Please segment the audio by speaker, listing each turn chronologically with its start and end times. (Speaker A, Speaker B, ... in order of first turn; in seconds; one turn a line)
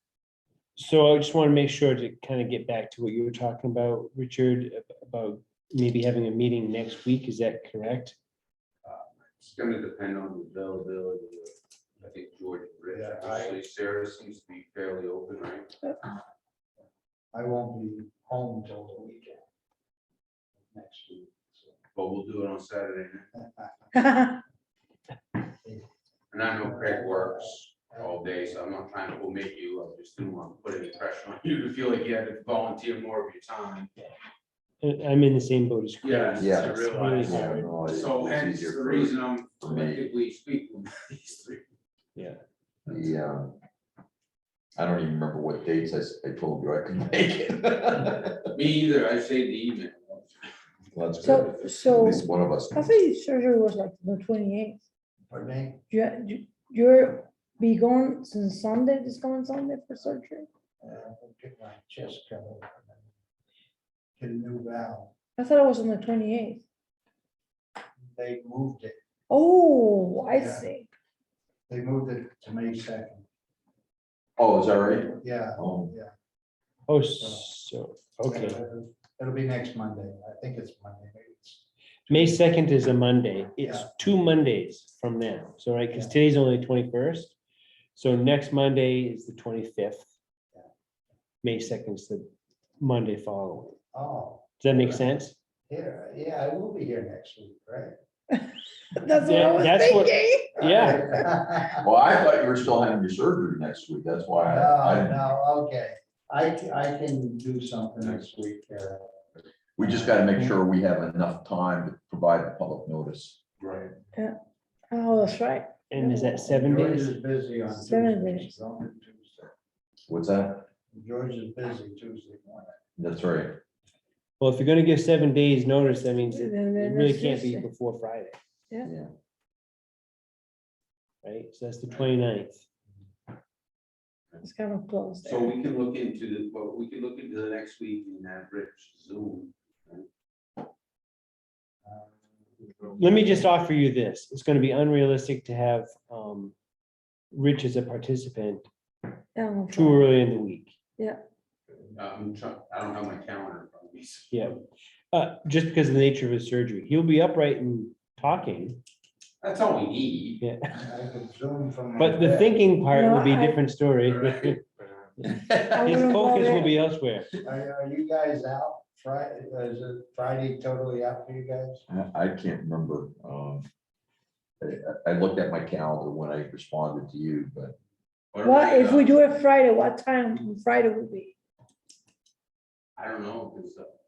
Speaker A: 0.8-8.2
Speaker B: 8.8-15.7
Speaker C: 12.9-13.6
Speaker C: 17.3-19.4
Speaker C: 20.7-21.8
Speaker B: 21.9-23.3
Speaker C: 23.3-24.1
Speaker D: 23.9-24.4
Speaker B: 26.3-33.9
Speaker C: 26.6-28.6
Speaker A: 34.8-37.9
Speaker B: 36.0-41.6
Speaker E: 36.4-40.1
Speaker E: 42.9-43.6
Speaker E: 44.8-48.5
Speaker B: 48.5-50.5
Speaker E: 50.9-52.9
Speaker B: 51.2-51.5
Speaker D: 51.2-54.8
Speaker C: 55.3-55.8
Speaker D: 55.9-60.5
Speaker C: 60.8-63.0
Speaker C: 64.2-65.1
Speaker D: 65.4-66.6
Speaker C: 68.0-69.0
Speaker D: 69.3-70.9
Speaker C: 70.3-70.7
Speaker C: 71.7-73.3
Speaker E: 74.4-75.9
Speaker C: 75.2-76.1
Speaker A: 76.9-78.6
Speaker C: 77.2-77.5
Speaker C: 78.3-82.4
Speaker A: 82.1-87.4
Speaker C: 83.6-83.9
Speaker A: 88.0-90.1
Speaker A: 91.4-92.3
Speaker A: 92.8-93.8
Speaker C: 93.9-94.5
Speaker A: 94.6-95.3
Speaker C: 95.7-98.0
Speaker D: 98.3-100.6
Speaker A: 99.2-101.1
Speaker C: 100.6-101.8
Speaker E: 101.8-105.2
Speaker C: 104.4-109.1
Speaker E: 109.8-113.4
Speaker C: 109.8-110.1
Speaker B: 113.6-114.0
Speaker D: 114.9-116.5
Speaker A: 115.9-117.2
Speaker C: 116.4-119.5
Speaker D: 117.7-118.5
Speaker E: 120.1-120.7
Speaker C: 120.9-122.8
Speaker E: 123.0-123.6
Speaker A: 124.4-128.4
Speaker D: 126.3-127.7
Speaker E: 128.8-129.1
Speaker A: 131.2-132.6
Speaker D: 134.4-135.6
Speaker B: 135.2-140.1
Speaker A: 143.0-146.5
Speaker A: 147.3-148.7
Speaker D: 149.3-150.1
Speaker A: 149.7-150.8
Speaker B: 151.9-154.6
Speaker A: 154.3-158.8
Speaker B: 159.4-160.4
Speaker A: 160.4-160.7
Speaker C: 160.7-162.6
Speaker A: 162.0-164.6
Speaker D: 162.9-163.6
Speaker B: 164.2-165.0
Speaker A: 165.2-167.3
Speaker D: 165.5-166.7
Speaker C: 167.4-171.8
Speaker E: 171.9-173.7
Speaker E: 174.6-177.8
Speaker B: 178.3-179.2
Speaker D: 178.4-181.3
Speaker B: 183.0-184.0